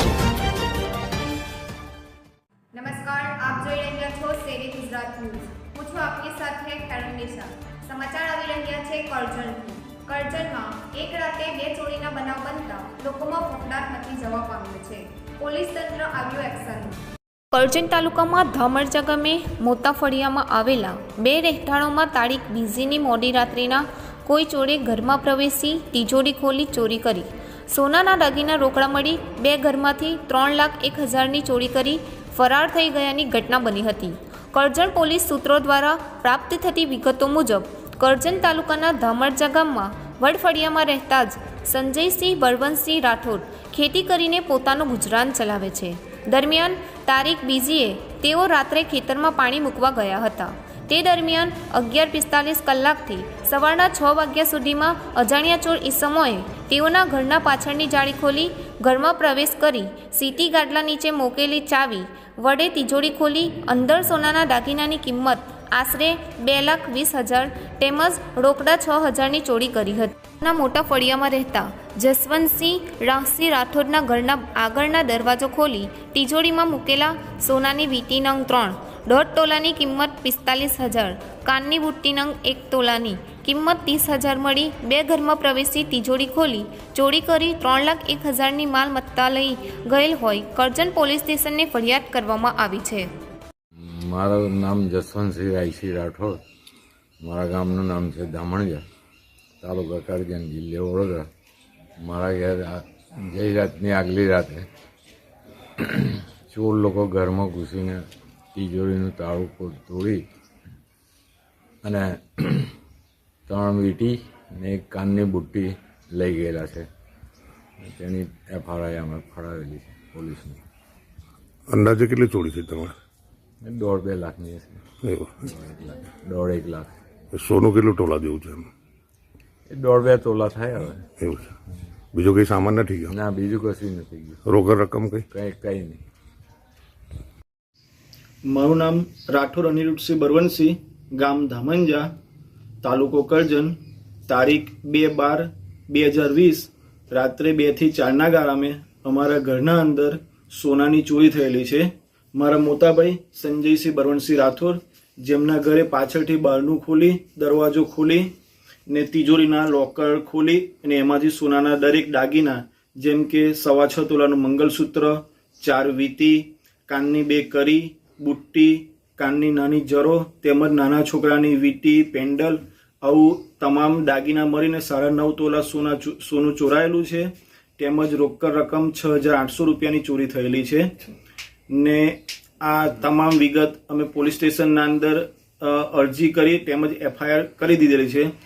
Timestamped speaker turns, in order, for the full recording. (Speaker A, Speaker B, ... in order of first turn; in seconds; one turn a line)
Speaker A: 3.7-17.0
Speaker A: 17.5-93.1
Speaker B: 93.8-96.4
Speaker B: 97.2-98.8
Speaker B: 99.6-101.3
Speaker B: 102.0-104.7
Speaker B: 105.8-110.2
Speaker B: 111.8-112.7
Speaker B: 113.5-116.9
Speaker B: 117.8-120.6
Speaker C: 121.7-123.0
Speaker B: 123.6-124.8
Speaker C: 125.0-125.4
Speaker B: 125.4-127.0
Speaker C: 127.3-128.7
Speaker B: 129.7-131.1
Speaker C: 131.2-131.5
Speaker C: 132.1-133.2
Speaker B: 133.1-134.4
Speaker C: 134.5-135.3
Speaker B: 135.3-136.0
Speaker D: 138.4-142.1
Speaker D: 142.8-143.8
Speaker D: 144.3-158.3
Speaker D: 158.9-180.9
Speaker D: 181.7-188.3